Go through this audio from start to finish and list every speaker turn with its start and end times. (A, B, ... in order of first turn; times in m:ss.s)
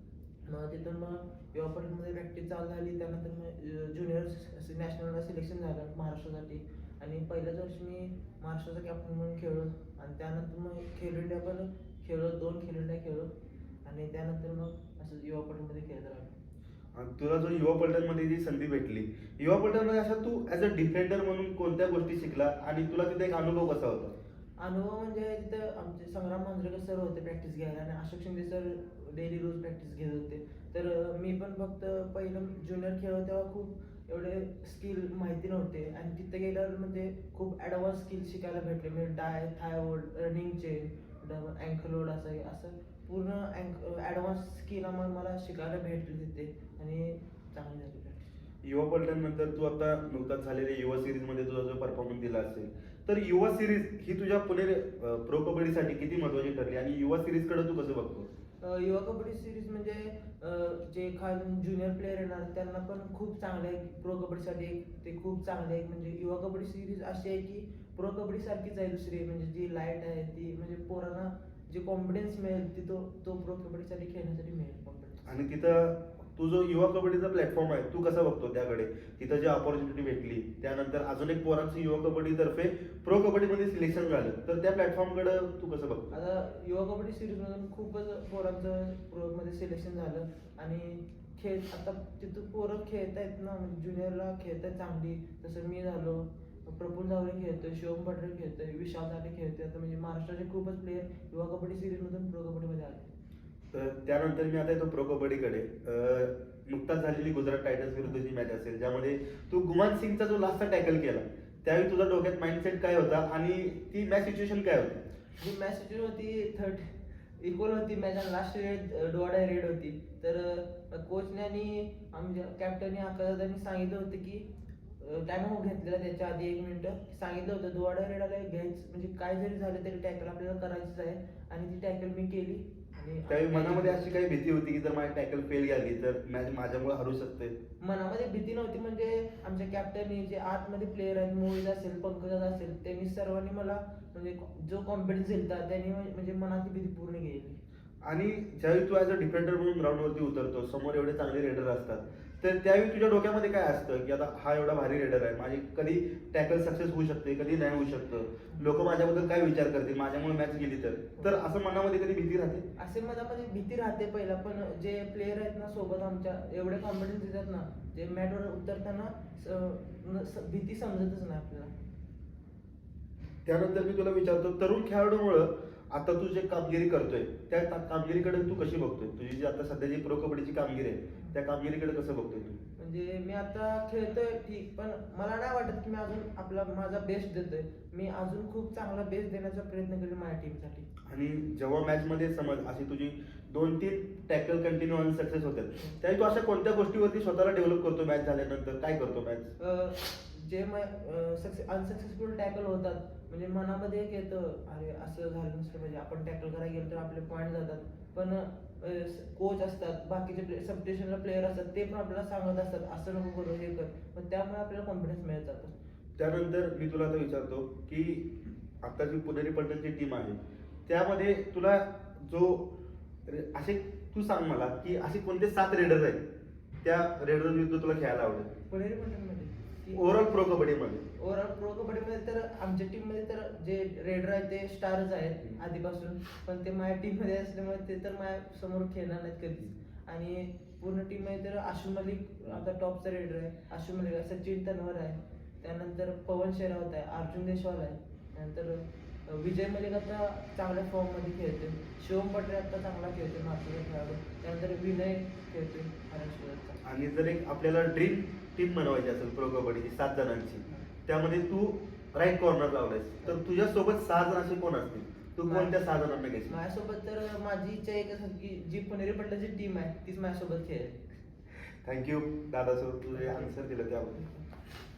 0:00.5-0:13.3 A
0:13.8-0:16.4 A
0:17.0-0:24.2 B
0:24.6-0:48.2 A
0:48.6-0:58.3 B
0:58.6-1:15.3 A
1:15.2-1:26.2 B
1:26.1-1:43.1 A
1:43.7-1:55.0 B
1:55.4-2:04.5 A
2:05.0-2:14.1 A
2:13.3-2:17.6 B
2:17.8-2:27.6 A
2:28.0-2:42.7 B
2:42.8-2:51.7 A
2:53.5-3:02.6 B
3:02.8-3:10.9 A
3:11.1-3:19.5 B
3:19.6-3:35.7 A
3:36.2-3:42.8 B
3:43.3-3:46.2 B
3:46.8-3:48.5 B
3:48.7-3:50.4 A
3:50.0-3:51.0 B
3:51.2-4:16.8 A
4:16.8-4:26.5 B
4:25.4-4:25.8 A
4:26.4-4:31.0 A
4:31.8-4:34.2 B
4:33.1-4:34.4 A